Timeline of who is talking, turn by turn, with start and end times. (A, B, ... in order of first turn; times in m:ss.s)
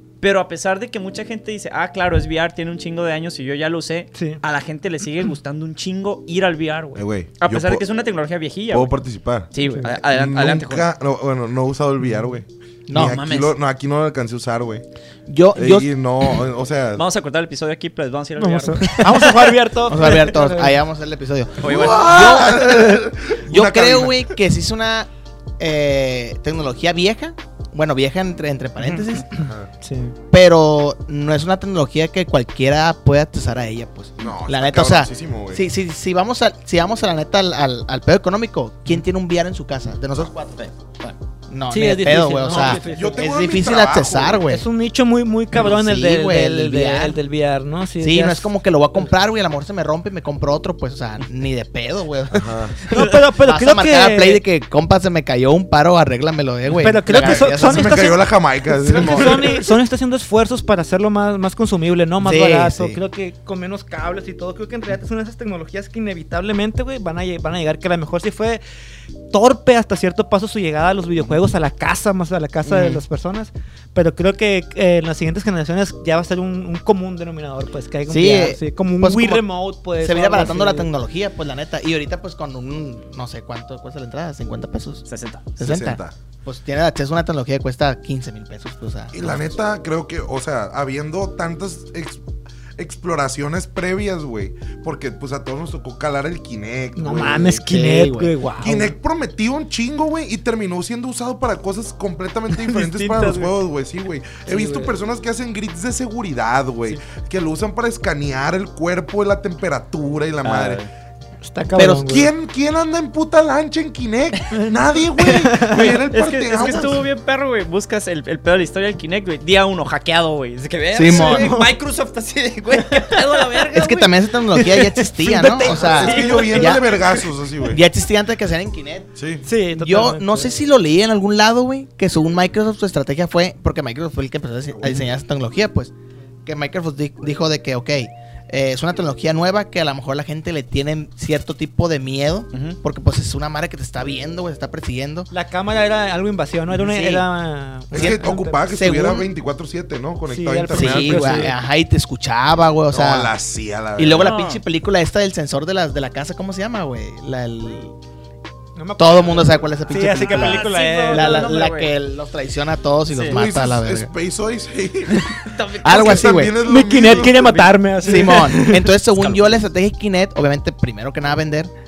0:00.2-0:08.9 A
0:04.1-0:04.4 B
0:06.9-0:07.8 C
0:08.7-0:09.5 C
0:09.5-0:10.9 A
0:09.6-0:09.9 B
0:10.0-0:14.8 C
0:12.9-0:13.2 D
0:12.9-0:13.5 A
0:15.3-0:15.9 D
0:15.5-0:17.0 C
0:17.0-0:19.5 A
0:18.4-0:20.8 B
0:19.8-0:29.5 D
0:21.6-0:22.4 A
0:21.6-0:24.2 C
0:29.3-0:30.2 B
0:29.4-0:29.7 C
0:30.3-0:40.6 D
0:34.2-0:35.6 C
0:40.5-0:41.1 A
0:41.5-0:44.6 D
0:41.7-0:43.2 B
0:42.5-0:44.4 C
0:44.5-0:48.5 B
0:45.6-0:47.2 D
0:48.0-0:52.7 D
0:52.3-0:52.8 C
0:52.9-0:54.4 B
0:53.4-0:58.1 D
0:56.8-1:08.6 B
0:57.1-0:59.6 C
0:59.0-0:59.3 D
1:02.2-1:03.0 D
1:09.3-1:20.9 B
1:12.6-1:13.0 D
1:18.1-1:25.0 D
1:25.1-1:25.4 A
1:25.6-1:29.6 D
1:25.6-1:26.1 C
1:29.1-1:32.2 C
1:32.8-1:37.6 C
1:37.0-1:38.9 B
1:37.6-1:38.3 D
1:38.6-1:50.8 C
1:42.5-1:43.5 B
1:44.5-1:44.9 B
1:50.4-1:50.9 A
1:51.4-1:52.3 B
1:51.8-1:52.0 D
1:51.8-1:57.0 C
1:55.2-1:56.0 B
1:55.7-2:04.1 A
2:00.9-2:01.6 D
2:01.0-2:01.7 B
2:03.7-2:07.0 D
2:04.5-2:06.8 B
2:05.4-2:06.8 A
2:05.6-2:07.8 C
2:07.6-2:09.1 D
2:09.2-2:09.5 C
2:09.5-2:10.5 B
2:09.7-2:15.9 D
2:14.8-2:15.0 C
2:16.4-2:25.3 D
2:25.3-2:28.7 B
2:26.7-2:27.2 A
2:26.8-2:27.2 D
2:27.9-2:31.5 C
2:27.9-2:29.3 D
2:30.3-2:31.5 B
2:30.7-2:33.3 D
2:32.9-2:34.3 C
2:34.0-2:38.0 D
2:34.1-2:34.6 A
2:38.8-2:41.6 B
2:39.0-2:44.1 D
2:40.0-2:41.9 A
2:43.1-2:43.4 A
2:43.3-2:47.7 C
2:45.5-2:46.3 A
2:45.8-2:46.6 D
2:46.5-2:48.9 B
2:47.3-2:47.7 A
2:48.0-2:51.7 D
2:49.2-2:49.6 A